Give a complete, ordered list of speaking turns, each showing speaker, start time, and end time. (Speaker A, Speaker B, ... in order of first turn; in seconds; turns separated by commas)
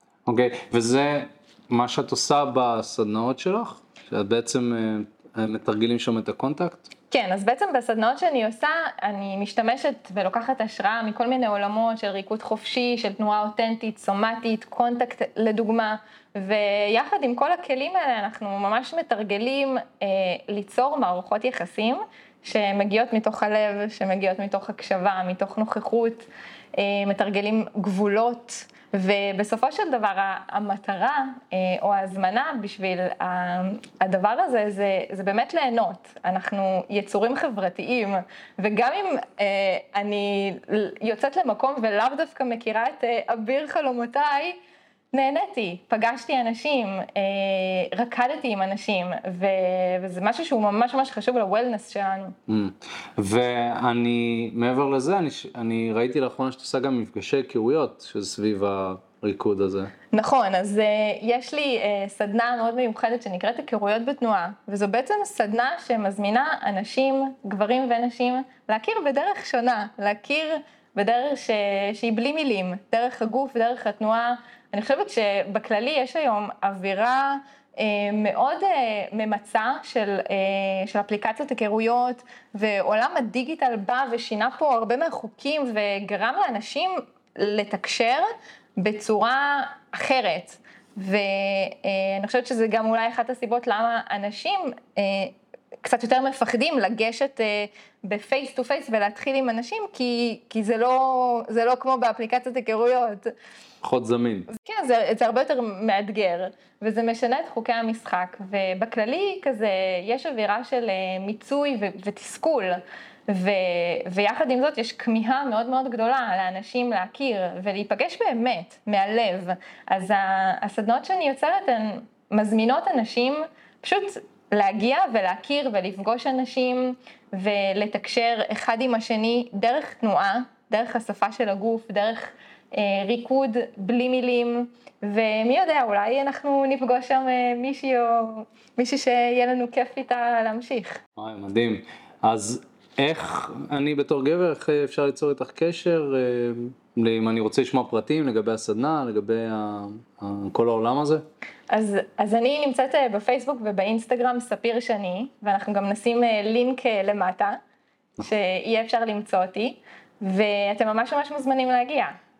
Speaker A: 0.2-6.9, Speaker B: 7.1-44.6, Speaker B: 45.1-52.3, Speaker A: 52.5-59.9, Speaker B: 60.1-103.3, Speaker A: 103.8-104.5, Speaker B: 104.5-141.0, Speaker A: 141.2-151.2, Speaker B: 151.7-157.6, Speaker B: 158.2-162.2